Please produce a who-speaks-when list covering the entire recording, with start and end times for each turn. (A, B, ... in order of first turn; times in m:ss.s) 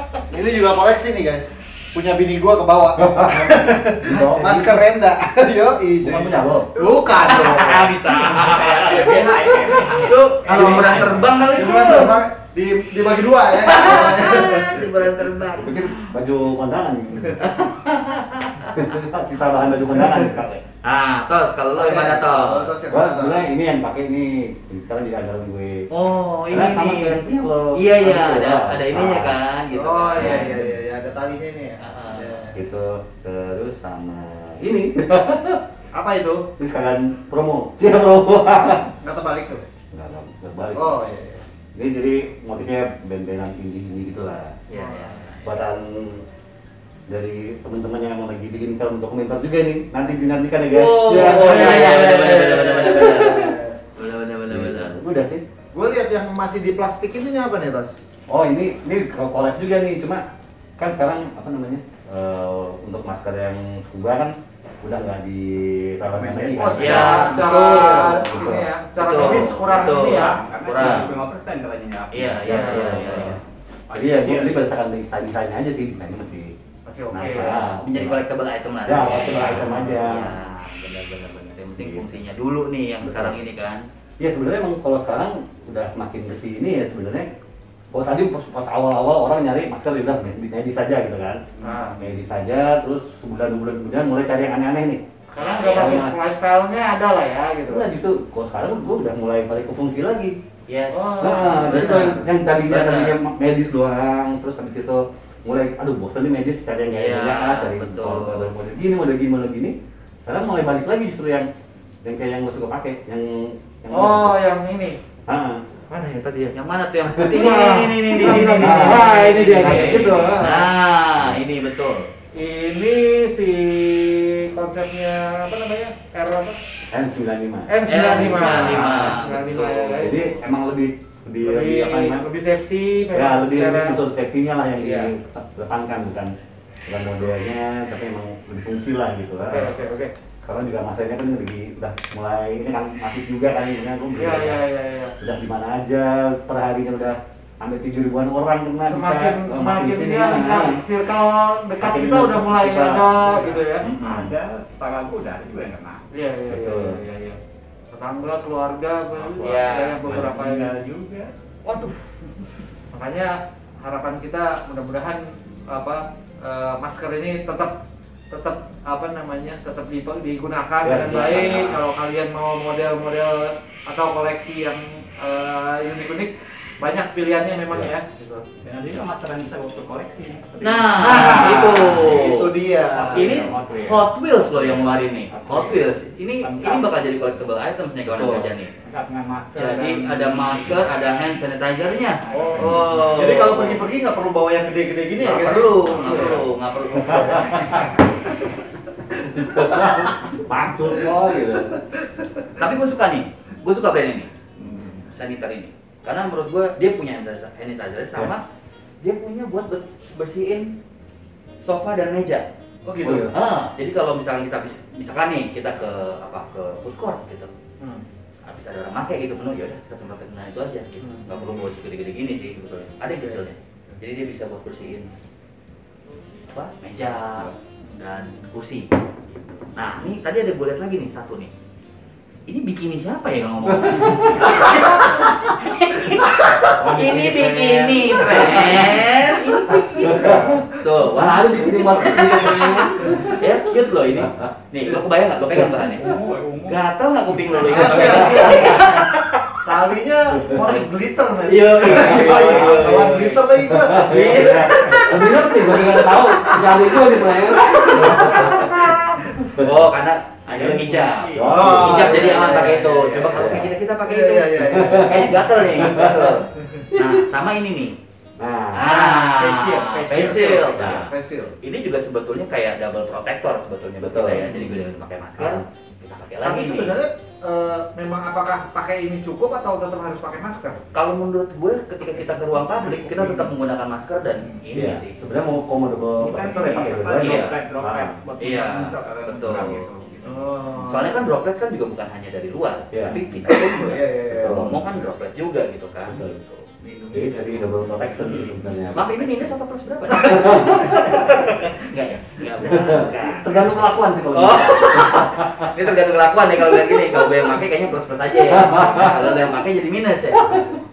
0:00.3-0:08.0 A
0:03.0-0:04.8 B
0:06.0-0:06.7 B
0:07.2-0:12.2 C
0:08.1-0:10.9 D
0:10.4-0:15.1 A
0:13.6-0:16.1 C
0:15.5-0:17.4 B
0:17.4-0:19.1 C
0:18.7-0:20.6 B
0:20.8-0:22.8 C
0:21.7-0:23.4 A
0:22.9-0:25.9 B
0:25.9-0:30.6 C
0:26.5-0:29.4 B
0:29.7-0:32.6 A
0:30.1-0:30.8 B
0:31.8-0:32.5 C
0:32.5-0:35.6 B
0:35.9-0:36.5 A
0:36.6-0:38.9 B
0:39.0-0:39.6 A
0:39.9-0:41.0 B
0:40.7-0:41.4 A
0:41.7-0:44.6 B
0:44.7-0:45.6 C
0:44.8-0:45.1 A
0:45.4-0:46.2 B
0:47.1-0:52.5 B
0:50.7-0:55.0 C
0:51.0-0:53.8 A
0:54.5-0:55.4 B
0:55.7-0:58.0 A
0:58.3-1:00.2 B
1:00.8-1:08.7 B
1:06.2-1:06.6 D
1:06.3-1:10.4 A
1:06.8-1:08.3 C
1:08.0-1:08.6 E
1:09.0-1:11.2 C
1:09.1-1:09.9 E
1:09.6-1:13.0 D
1:12.1-1:13.4 C
1:12.4-1:13.4 B
1:13.9-1:14.6 D
1:13.9-1:16.5 B
1:16.9-1:17.6 E
1:17.1-1:18.2 B
1:17.3-1:23.8 C
1:18.8-1:20.3 B
1:21.8-1:22.1 B
1:23.0-1:23.4 B
1:24.2-1:27.3 B
1:27.9-1:35.0 B
1:31.6-1:31.9 A
1:31.6-1:32.0 E
1:35.3-1:37.8 E
1:35.4-1:36.1 C
1:35.7-1:36.2 B
1:37.7-1:40.4 B
1:40.7-1:43.2 C
1:41.1-1:41.6 E
1:41.2-1:51.5 B
1:46.9-1:48.5 C
1:52.0-1:54.4 B
1:53.9-1:54.9 E
1:55.3-1:55.6 B
1:56.5-2:02.1 C
1:57.2-1:57.5 B
1:57.6-2:00.6 E
1:58.1-2:00.3 A
1:58.2-2:00.4 B
2:02.4-2:06.5 E
2:06.9-2:09.4 B
2:07.7-2:10.3 E
2:07.8-2:10.4 C
2:10.0-2:12.2 B
2:11.5-2:13.9 E
2:13.1-2:16.3 B
2:16.8-2:19.8 B
2:19.5-2:20.1 E
2:20.4-2:24.6 B
2:24.2-2:25.1 E
2:25.2-2:30.8 B
2:28.9-2:33.8 E
2:31.8-2:34.3 B
2:33.8-2:36.0 D
2:36.2-2:37.4 E
2:36.5-2:37.0 B
2:37.9-2:40.7 E
2:39.1-2:39.9 A
2:39.4-2:40.0 C
2:40.0-2:41.3 D
2:40.0-2:40.3 B
2:41.6-2:42.0 C
2:42.9-2:43.3 E
2:43.8-2:45.2 E
2:45.7-2:47.7 E
2:48.3-2:56.3 E
2:50.8-2:51.8 B
2:56.8-2:58.4 E
2:58.6-3:01.5 D
3:00.6-3:02.5 C
3:01.0-3:03.5 A
3:02.9-3:06.9 D
3:03.1-3:08.7 C
3:08.1-3:08.5 B
3:08.8-3:10.9 D
3:09.5-3:13.8 C
3:12.3-3:13.3 D
3:12.3-3:18.0 A
3:15.2-3:18.0 C
3:17.2-3:17.8 B
3:19.3-3:21.8 B
3:19.4-3:20.0 A
3:22.2-3:22.4 A
3:22.6-3:24.3 C
3:24.6-3:25.0 D
3:25.1-3:28.4 C
3:29.0-3:30.8 C
3:31.6-3:32.5 C
3:32.8-3:33.3 A
3:33.0-3:33.3 B
3:33.3-3:37.5 C
3:37.8-3:38.0 A
3:38.4-3:45.1 C
3:41.0-3:41.7 A
3:43.1-3:44.0 A
3:46.5-3:49.0 C
3:49.6-3:51.5 C
3:52.5-4:06.1 C
3:53.8-3:54.8 B
3:56.6-3:59.1 B
3:59.7-4:03.4 B
4:00.0-4:00.6 A
4:04.2-4:04.5 B
4:05.8-4:06.8 D
4:06.6-4:09.6 C
4:07.4-4:08.5 D
4:07.6-4:09.0 A
4:09.6-4:15.0 A
4:11.4-4:18.8 C
4:11.9-4:13.0 B
4:13.6-4:18.8 B
4:15.7-4:16.6 A
4:17.7-4:19.4 A
4:19.5-4:28.0 C
4:20.5-4:22.0 D
4:21.3-4:22.4 B
4:21.5-4:26.0 A
4:23.3-4:23.7 B
4:24.7-4:26.4 B
4:28.4-4:28.9 B
4:28.7-4:31.1 C
4:28.9-4:30.8 D
4:30.1-4:31.5 A
4:30.8-4:31.0 B
4:31.6-4:37.0 C
4:34.0-4:35.6 B
4:36.4-4:40.8 A
4:40.9-4:45.2 C
4:42.2-4:43.4 D
4:44.7-4:48.2 B
4:46.2-4:50.5 D
4:47.2-4:47.6 C
4:48.4-4:49.8 C
4:50.2-4:51.2 A
4:50.8-4:56.7 C
4:52.9-4:53.2 B
4:53.5-4:54.7 A
4:54.3-4:54.8 B
4:56.1-4:56.4 B
4:56.8-4:59.1 D
4:57.1-4:59.2 B
4:58.9-5:03.6 C
5:00.1-5:01.0 B
5:02.6-5:05.7 B
5:04.3-5:10.7 C
5:08.5-5:09.3 B
5:10.4-5:10.8 B